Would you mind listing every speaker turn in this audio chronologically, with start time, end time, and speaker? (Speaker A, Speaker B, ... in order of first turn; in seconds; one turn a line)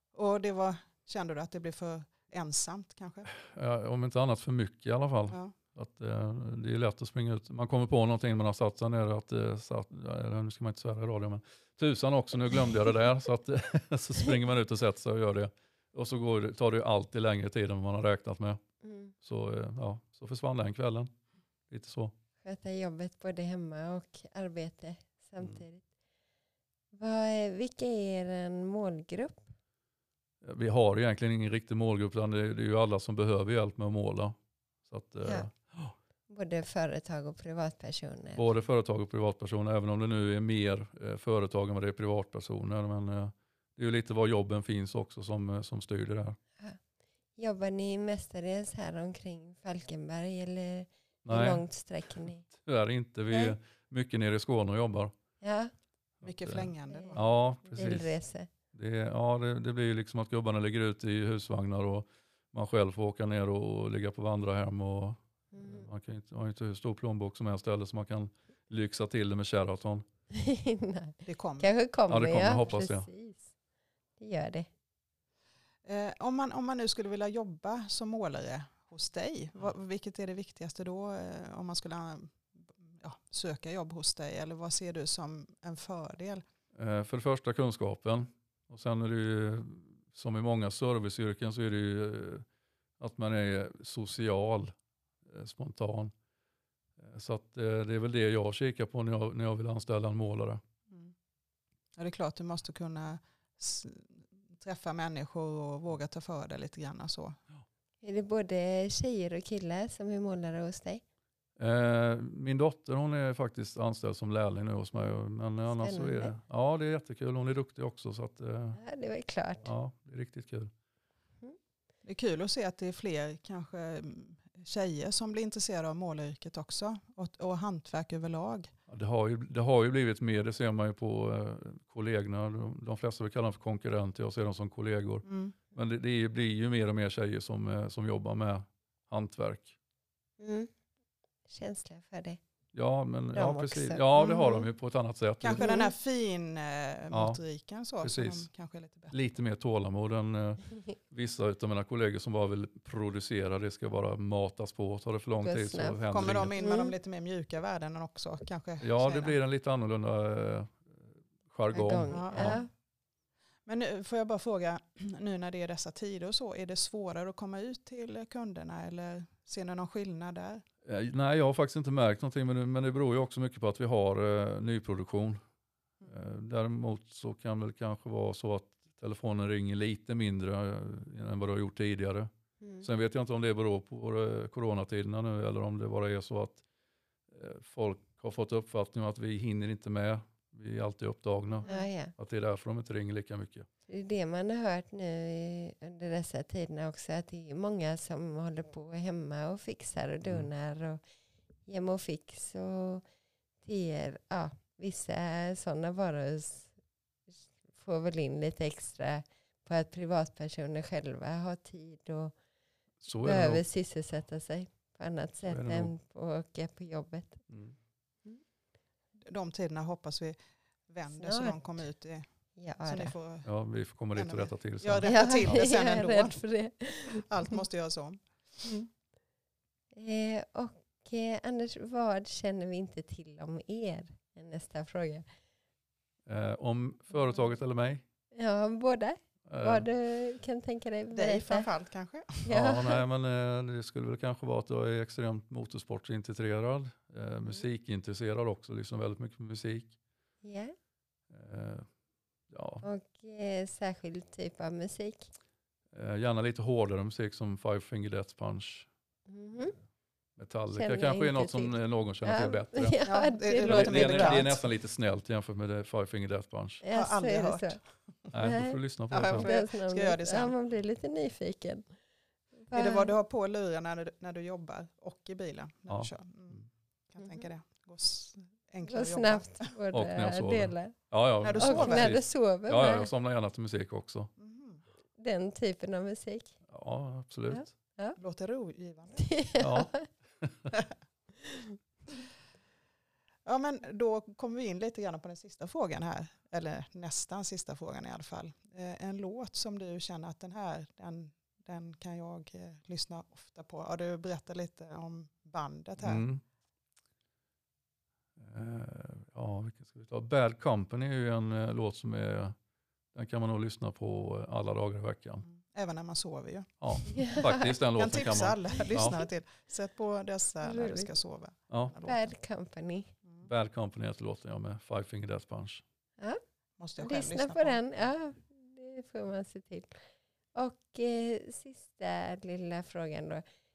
Speaker A: 0.1-3.3
Speaker B: 3.5-18.6
Speaker C: 18.8-19.1
Speaker B: 19.2-21.1
Speaker B: 21.7-22.1
Speaker C: 22.4-25.8
Speaker C: 26.9-29.5
Speaker B: 30.4-34.3
Speaker B: 34.9-35.9
Speaker C: 36.3-38.4
Speaker B: 38.4-46.4
Speaker C: 47.4-52.5
Speaker B: 51.2-51.6
Speaker B: 52.5-55.1
Speaker C: 53.3-53.5
Speaker C: 55.4-55.7
Speaker A: 56.2-57.2
Speaker B: 56.2-58.1
Speaker C: 56.9-58.5
Speaker B: 58.7-70.0
Speaker C: 65.5-65.9
Speaker C: 70.3-73.5
Speaker A: 71.2-71.7
Speaker B: 72.1-73.1
Speaker C: 74.2-74.7
Speaker A: 75.8-86.4
Speaker B: 86.8-92.4
Speaker B: 93.0-94.7
Speaker B: 95.3-96.1
Speaker B: 97.0-100.6
Speaker A: 102.0-107.4
Speaker C: 108.0-111.0
Speaker B: 111.6-118.8
Speaker C: 115.7-116.3
Speaker C: 118.8-119.7
Speaker B: 119.6-120.7
Speaker A: 122.0-128.7
Speaker B: 128.9-139.7
Speaker A: 135.2-135.5
Speaker C: 140.4-140.7
Speaker C: 141.5-142.4
Speaker B: 142.7-145.7
Speaker C: 143.3-144.7
Speaker A: 145.4-149.1
Speaker C: 145.6-145.9
Speaker B: 147.1-147.4
Speaker B: 148.0-148.5
Speaker B: 149.1-156.5
Speaker C: 155.4-156.0
Speaker A: 156.1-159.4
Speaker C: 156.6-156.9
Speaker B: 158.8-162.6
Speaker C: 161.7-162.7
Speaker A: 162.1-162.6
Speaker A: 163.7-170.6
Speaker B: 170.8-175.4
Speaker B: 176.0-182.3
Speaker C: 182.6-182.9
Speaker B: 182.8-186.6
Speaker B: 187.3-193.7
Speaker C: 191.6-192.1
Speaker C: 193.9-201.0
Speaker C: 201.7-203.0
Speaker C: 203.6-206.7
Speaker C: 207.4-212.3
Speaker B: 213.0-213.6
Speaker C: 213.1-217.4
Speaker B: 215.4-215.9
Speaker B: 217.5-217.7
Speaker A: 219.2-222.2
Speaker C: 221.1-221.7
Speaker C: 222.6-223.1
Speaker A: 222.8-223.5
Speaker B: 223.4-225.6
Speaker A: 224.1-226.4
Speaker C: 225.0-227.3
Speaker A: 227.2-228.2
Speaker C: 229.9-235.2
Speaker B: 236.3-238.0
Speaker C: 238.3-241.7
Speaker B: 239.5-239.9
Speaker A: 241.1-242.5
Speaker C: 242.4-243.0
Speaker B: 242.5-249.9
Speaker C: 250.4-250.7
Speaker B: 251.3-251.8
Speaker B: 252.5-252.8
Speaker C: 252.8-255.3
Speaker B: 255.9-258.9
Speaker C: 259.3-259.8
Speaker B: 260.4-263.0
Speaker C: 260.7-264.5
Speaker A: 263.1-264.6
Speaker B: 263.6-266.8
Speaker C: 266.8-267.8
Speaker A: 266.9-267.8
Speaker B: 268.3-269.5
Speaker C: 268.3-271.9
Speaker A: 269.1-270.5
Speaker C: 272.6-273.1
Speaker A: 272.7-279.7
Speaker B: 275.9-276.6
Speaker C: 277.2-277.5
Speaker C: 278.8-280.9
Speaker B: 279.9-284.3
Speaker A: 281.4-282.1
Speaker C: 281.5-283.1
Speaker A: 284.4-284.8
Speaker C: 285.2-286.5
Speaker B: 286.7-287.7
Speaker C: 287.5-288.2
Speaker A: 288.2-289.2
Speaker C: 289.2-290.0
Speaker B: 289.6-290.7
Speaker C: 291.4-291.7
Speaker A: 293.4-306.2
Speaker B: 306.0-306.4
Speaker B: 308.4-312.5
Speaker B: 313.1-315.4
Speaker A: 315.5-317.2
Speaker B: 316.8-319.1
Speaker C: 317.1-317.8
Speaker A: 317.9-322.2
Speaker C: 320.6-321.1
Speaker B: 321.7-322.0
Speaker C: 322.0-323.1
Speaker B: 323.4-325.8
Speaker A: 326.8-327.8
Speaker C: 327.0-329.9
Speaker C: 330.5-333.4